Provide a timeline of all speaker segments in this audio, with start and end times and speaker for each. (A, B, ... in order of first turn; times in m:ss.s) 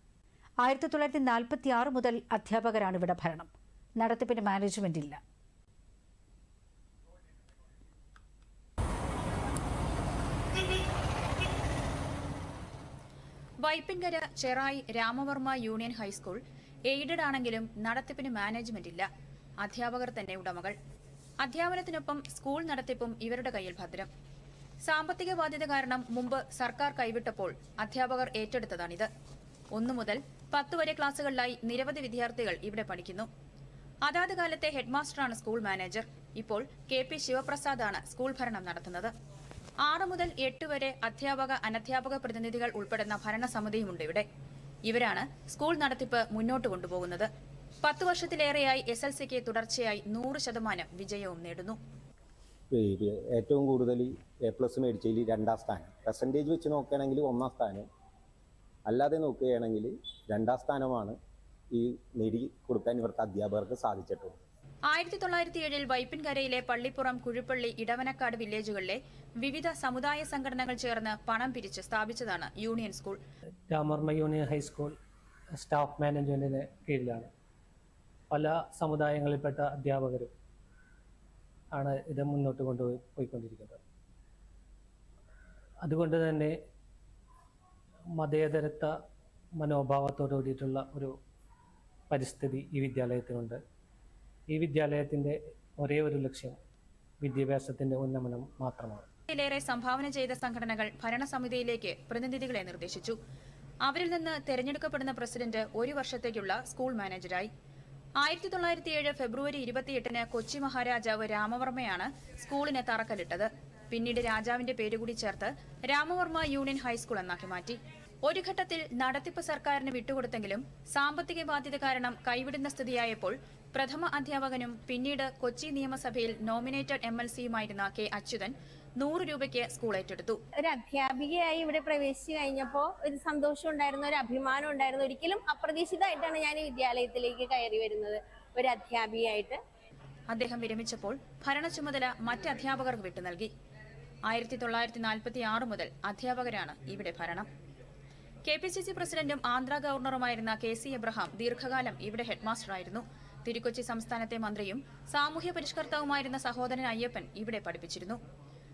0:00.6-0:05.2 A
0:13.6-0:19.0 B
0:19.6-0:20.7 B
0:21.4-0:24.1 B
0:24.8-0:29.1 B
0:29.7-0:33.3 B
0:34.1-0:39.1 B
0:39.8-0:44.2 B
0:44.9-0:47.3 B
0:47.8-0:51.8 B
0:52.7-0:57.8 C
0:58.9-1:01.2 C
1:01.7-1:04.4 C
1:04.9-1:13.2 B
1:13.7-1:14.9 D
1:15.5-1:17.3 D
1:18.3-1:20.3 D
1:21.7-1:23.8 D
1:25.8-1:26.5 D
1:28.2-1:28.9 D
1:29.6-1:31.1 D
1:32.1-1:33.6 D
1:34.5-1:36.6 D
1:37.2-1:39.0 D
1:39.3-1:43.2 B
1:43.8-1:47.5 B
1:48.2-2:10.4 B
2:10.6-2:19.6 E
2:20.3-2:23.5 B
2:24.3-2:27.5 B
2:28.4-2:38.2 B